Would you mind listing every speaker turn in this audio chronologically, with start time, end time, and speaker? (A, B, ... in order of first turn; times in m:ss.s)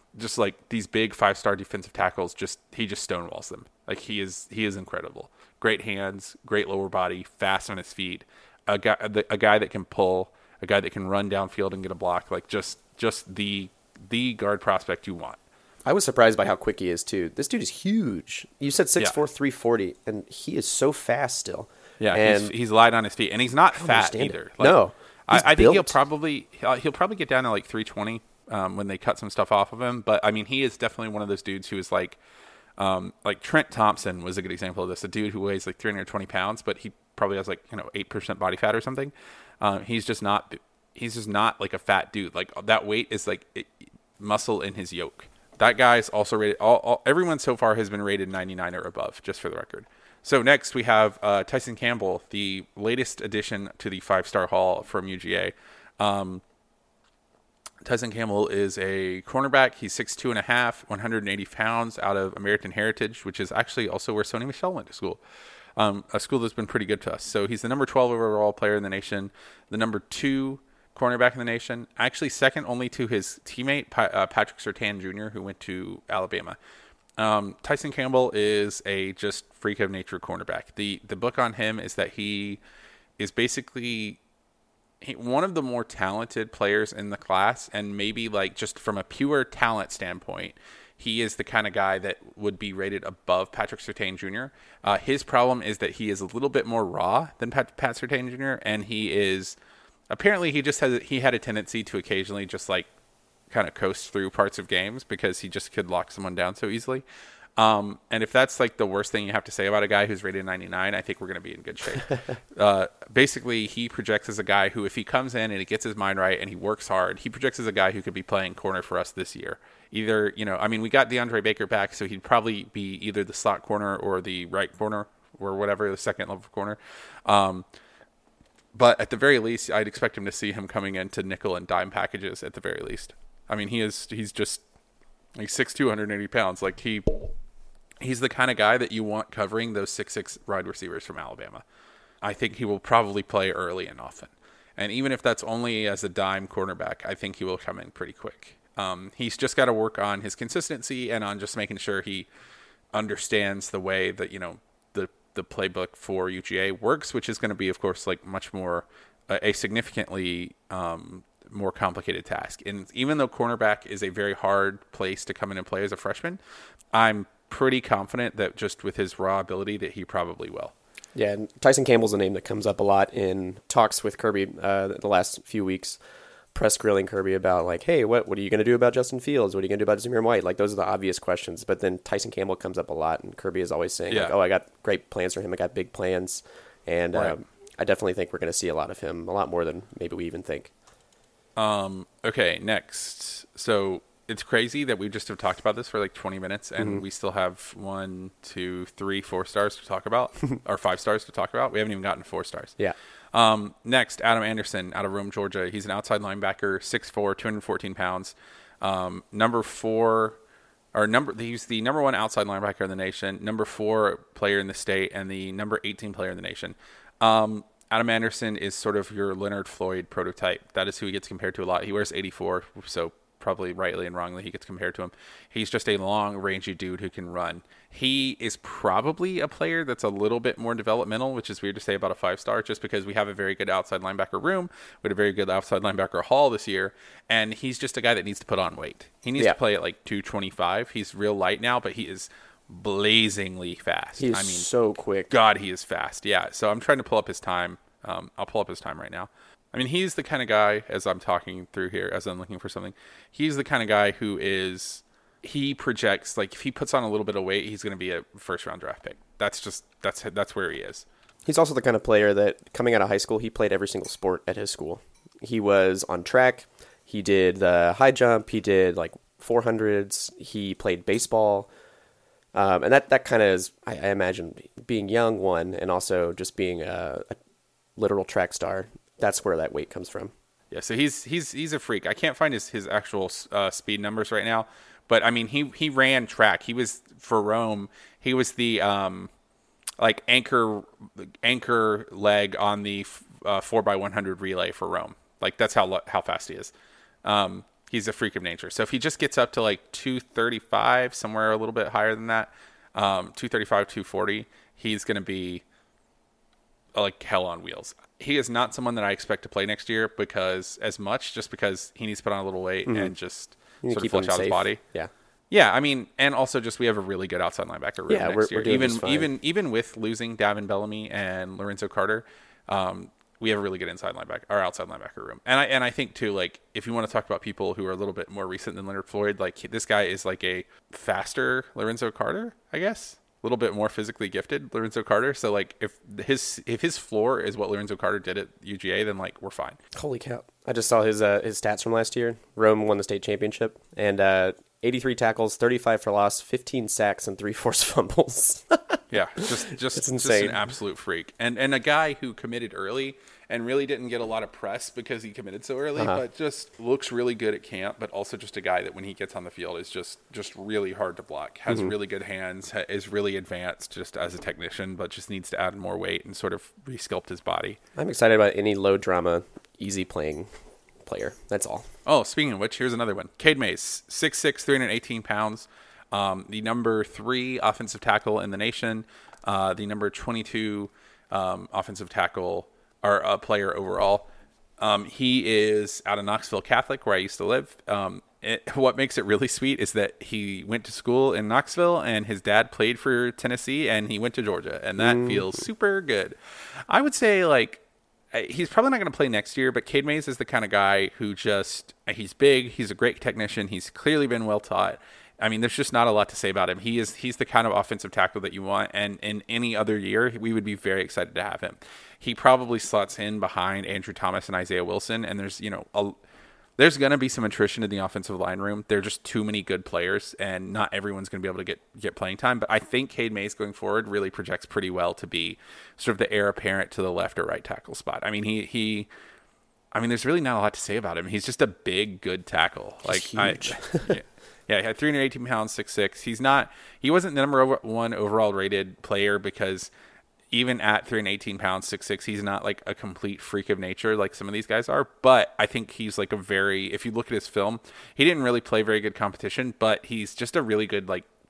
0:00.1-0:15.4 A
0:15.8-0:22.5 B
0:22.0-0:32.2 A
0:23.8-0:26.0 B
0:32.8-0:56.4 A
0:57.8-1:05.2 A
1:05.8-1:16.6 A
1:17.2-1:22.6 A
1:23.2-1:24.2 A
1:25.0-1:39.6 A
1:40.1-1:42.9 A
1:43.5-1:47.0 A
1:47.6-2:07.7 A
2:08.7-2:14.6 A
2:15.4-2:17.3 A
2:18.0-2:21.6 A
2:22.2-2:32.3 A
2:32.9-2:46.4 A
2:46.9-2:50.7 A
2:51.1-2:56.0 B
2:56.5-3:10.7 B
3:11.6-3:22.8 A
3:16.8-3:17.0 B
3:23.3-3:30.4 A
3:30.9-4:04.7 A
4:04.2-4:05.3 B
4:05.3-4:21.1 A
4:21.5-4:31.7 B
4:32.5-4:37.4 B
4:38.0-4:40.3 B
4:40.7-4:49.3 A
4:50.0-4:56.7 A
4:57.2-5:05.6 A
5:06.9-5:14.8 A
5:12.9-5:13.1 B
5:13.8-5:15.1 B
5:15.5-5:39.8 A
5:18.1-5:19.3 B
5:39.9-5:50.6 B
5:49.1-6:07.8 A
5:56.0-5:56.2 B
6:01.7-6:01.9 B
6:08.0-6:10.5 B
6:11.1-6:11.9 B
6:12.1-6:24.3 A
6:24.8-6:56.2 A
6:35.0-6:35.6 B
6:56.8-7:09.1 A
7:09.9-7:19.9 A
7:13.0-7:14.1 B
7:20.5-7:31.3 A